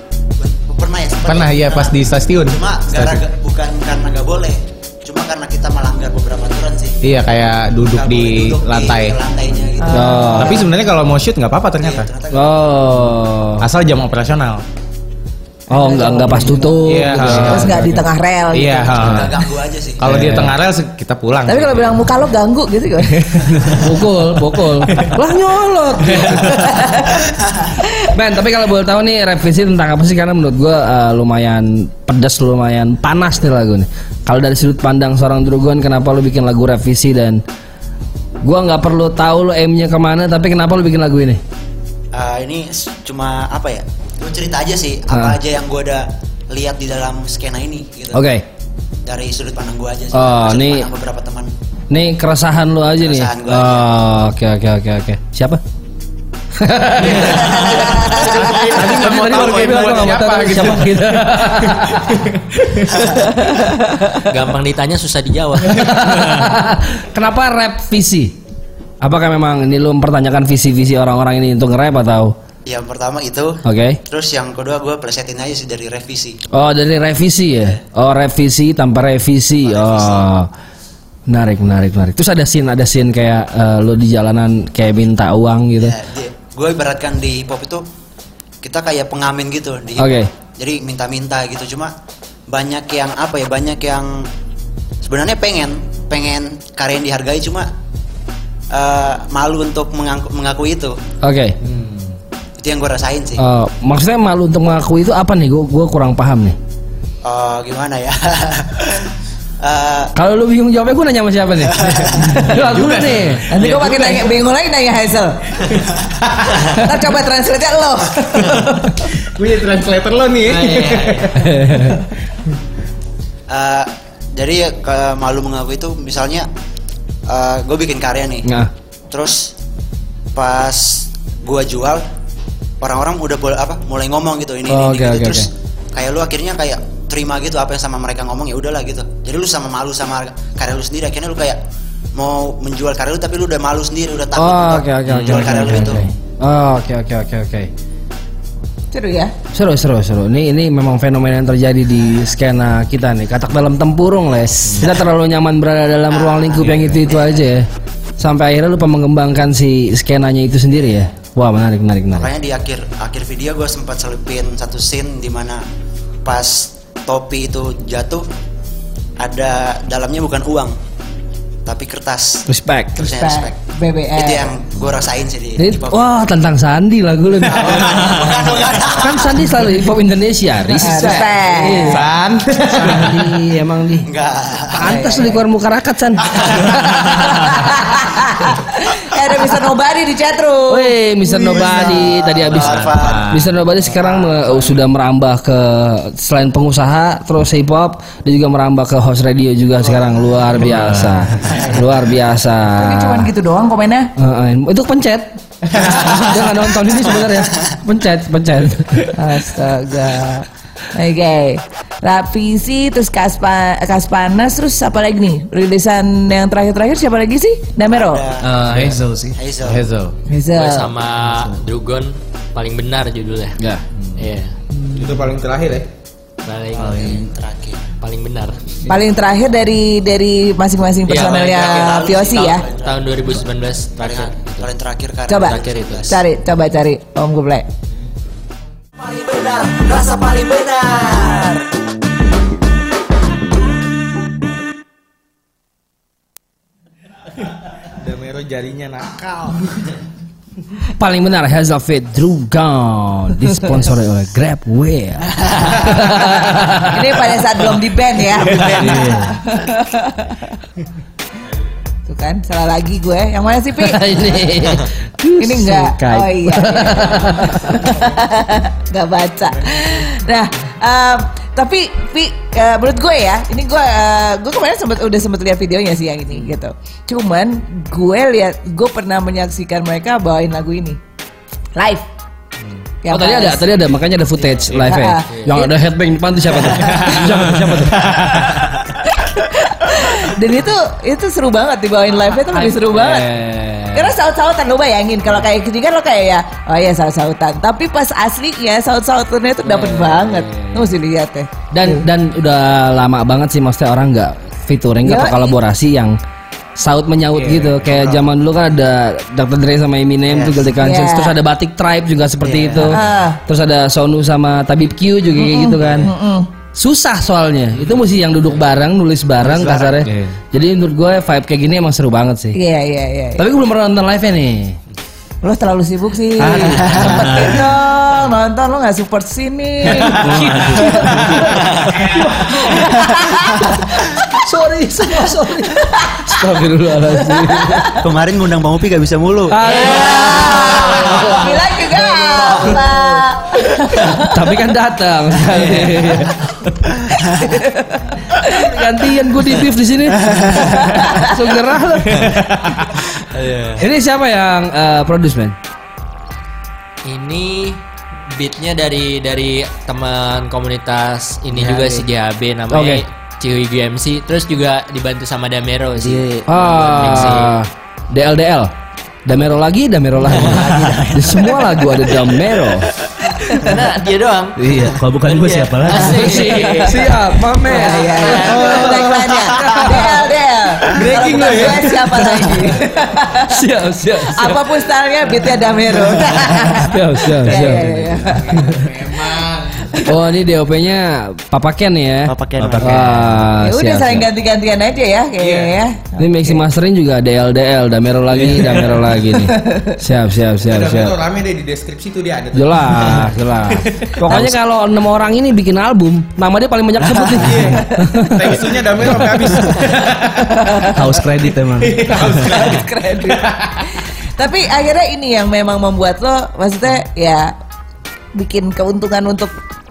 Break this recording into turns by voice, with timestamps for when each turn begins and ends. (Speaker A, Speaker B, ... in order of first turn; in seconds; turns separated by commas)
Speaker A: 0.4-7.0, Speaker B: 1.3-3.2, Speaker B: 7.0-9.2, Speaker A: 7.8-10.5, Speaker C: 9.8-10.7, Speaker D: 9.9-10.7, Speaker B: 10.4-12.1, Speaker A: 11.8-12.8, Speaker D: 12.3-13.7, Speaker B: 13.6-14.6, Speaker D: 15.7-18.1, Speaker C: 15.7-19.0, Speaker B: 16.9-17.8, Speaker B: 18.5-19.4, Speaker A: 19.0-20.3, Speaker B: 20.0-22.1, Speaker D: 20.1-20.5, Speaker C: 21.5-23.7, Speaker B: 23.4-23.8, Speaker D: 23.7-26.9, Speaker B: 26.1-26.4, Speaker C: 26.7-27.1, Speaker D: 28.0-37.4, Speaker D: 38.4-41.4, Speaker A: 42.1-48.2, Speaker D: 45.1-45.4, Speaker D: 48.1-48.5, Speaker A: 49.1-51.5, Speaker D: 50.1-50.9, Speaker D: 51.9-55.6, Speaker A: 53.0-54.0, Speaker D: 56.6-62.2, Speaker B: 57.0-63.0, Speaker A: 57.1-60.0, Speaker E: 64.3-65.8, Speaker D: 65.8-68.4, Speaker D: 69.0-72.4, Speaker A: 72.7-76.4, Speaker D: 73.7-74.0, Speaker D: 76.5-80.5, Speaker A: 79.6-80.3, Speaker D: 81.3-86.0, Speaker A: 85.8-87.9, Speaker A: 88.6-91.9, Speaker D: 90.0-90.3, Speaker A: 92.5-94.3, Speaker A: 95.0-97.7, Speaker A: 98.7-101.0, Speaker D: 101.2-101.6, Speaker B: 101.6-102.2, Speaker A: 102.6-103.4, Speaker D: 103.4-106.6, Speaker A: 107.2-109.1, Speaker A: 109.6-110.1, Speaker D: 110.2-113.5, Speaker A: 111.8-112.3, Speaker B: 112.4-114.3, Speaker C: 113.5-115.5, Speaker B: 116.3-116.6, Speaker C: 116.6-119.1, Speaker B: 118.4-121.9, Speaker E: 120.5-121.3, Speaker D: 121.4-121.9, Speaker A: 123.5-126.5, Speaker A: 127.3-128.5, Speaker D: 128.5-128.7, Speaker A: 129.1-129.5, Speaker A: 130.3-132.0, Speaker A: 132.8-141.6, Speaker D: 134.7-135.5, Speaker A: 142.2-146.1, Speaker D: 144.3-147.7, Speaker C: 148.9-149.3, Speaker D: 149.5-157.7, Speaker A: 156.1-157.2, Speaker D: 158.2-162.3, Speaker A: 162.1-165.6, Speaker A: 166.2-168.3, Speaker A: 169.2-170.8, Speaker A: 171.7-173.6, Speaker D: 172.5-173.0, Speaker C: 173.0-174.5, Speaker A: 174.2-176.1, Speaker D: 175.6-182.1, Speaker A: 177.5-179.4, Speaker C: 180.8-182.0, Speaker B: 181.7-183.2, Speaker D: 182.6-184.1, Speaker A: 184.1-184.9, Speaker D: 184.7-187.6, Speaker C: 184.8-185.4, Speaker C: 187.3-191.8, Speaker D: 190.7-203.3, Speaker A: 191.4-193.4, Speaker B: 193.0-193.4, Speaker A: 194.1-194.4, Speaker F: 200.6-201.3, Speaker C: 202.8-204.1, Speaker D: 204.2-209.1, Speaker C: 209.1-218.2, Speaker A: 217.9-218.7, Speaker F: 218.4-219.4, Speaker B: 218.7-219.0, Speaker A: 219.4-219.9, Speaker B: 219.6-220.2, Speaker C: 220.3-220.9, Speaker E: 220.5-223.6, Speaker F: 221.3-221.6, Speaker E: 224.2-224.5, Speaker B: 224.9-225.9, Speaker E: 226.4-227.1, Speaker F: 226.8-227.2, Speaker A: 226.8-227.9, Speaker E: 228.0-228.6, Speaker C: 228.9-232.6, Speaker E: 231.1-234.7, Speaker A: 231.3-233.2, Speaker A: 234.0-236.2, Speaker C: 235.3-237.7, Speaker E: 235.3-236.1, Speaker G: 239.0-241.6, Speaker B: 247.9-249.8, Speaker D: 251.0-257.2, Speaker C: 256.8-260.6, Speaker F: 258.7-259.4, Speaker C: 262.1-264.1, Speaker D: 263.8-267.8, Speaker C: 265.4-281.0, Speaker C: 281.8-282.1, Speaker C: 283.1-283.7, Speaker D: 283.1-288.7, Speaker C: 284.8-285.7, Speaker E: 285.3-285.6, Speaker C: 286.9-287.1, Speaker C: 289.1-293.3, Speaker D: 292.4-294.2, Speaker C: 293.9-302.1, Speaker D: 299.6-300.9, Speaker D: 301.7-306.2, Speaker C: 305.0-305.6, Speaker D: 306.8-316.1, Speaker B: 307.3-307.8, Speaker A: 307.9-308.2, Speaker A: 310.3-310.6, Speaker C: 310.8-311.4, Speaker A: 312.4-313.0, Speaker C: 312.9-313.4, Speaker C: 315.4-316.5, Speaker D: 316.7-322.6, Speaker F: 319.5-320.4, Speaker C: 322.6-323.5, Speaker D: 323.4-324.8, Speaker C: 325.4-330.2, Speaker D: 326.4-327.3, Speaker F: 326.6-327.6, Speaker D: 329.9-338.0, Speaker F: 330.2-331.5, Speaker C: 332.7-333.7, Speaker C: 335.8-336.3, Speaker C: 337.2-338.0, Speaker A: 338.0-339.6, Speaker D: 339.5-343.1, Speaker C: 339.6-344.4, Speaker D: 343.8-346.7, Speaker C: 347.4-348.7, Speaker D: 348.4-352.4, Speaker C: 350.8-351.3, Speaker B: 352.1-352.8, Speaker E: 353.3-353.8, Speaker D: 353.8-355.6, Speaker E: 357.1-367.5, Speaker D: 362.7-363.0, Speaker A: 366.0-367.3, Speaker D: 366.5-368.7, Speaker D: 369.2-372.9, Speaker A: 370.6-371.4, Speaker E: 373.5-377.0, Speaker F: 374.6-376.3, Speaker D: 375.9-379.0, Speaker C: 376.3-377.0, Speaker C: 377.6-383.5, Speaker E: 377.7-378.8, Speaker B: 378.5-379.8, Speaker D: 379.6-380.2, Speaker B: 380.9-382.5, Speaker D: 383.4-384.6, Speaker C: 384.3-388.8, Speaker D: 386.2-388.1, Speaker B: 387.7-390.1, Speaker D: 390.1-394.3, Speaker A: 392.3-393.2, Speaker F: 392.6-393.0, Speaker C: 393.6-396.6, Speaker B: 395.4-395.8, Speaker D: 396.2-401.2, Speaker C: 399.5-399.9, Speaker B: 400.6-404.5, Speaker D: 402.5-409.5, Speaker B: 407.4-410.9, Speaker C: 410.5-410.9, Speaker F: 410.9-412.4, Speaker B: 411.8-413.9, Speaker C: 412.3-413.5, Speaker C: 414.4-417.5, Speaker C: 418.4-419.5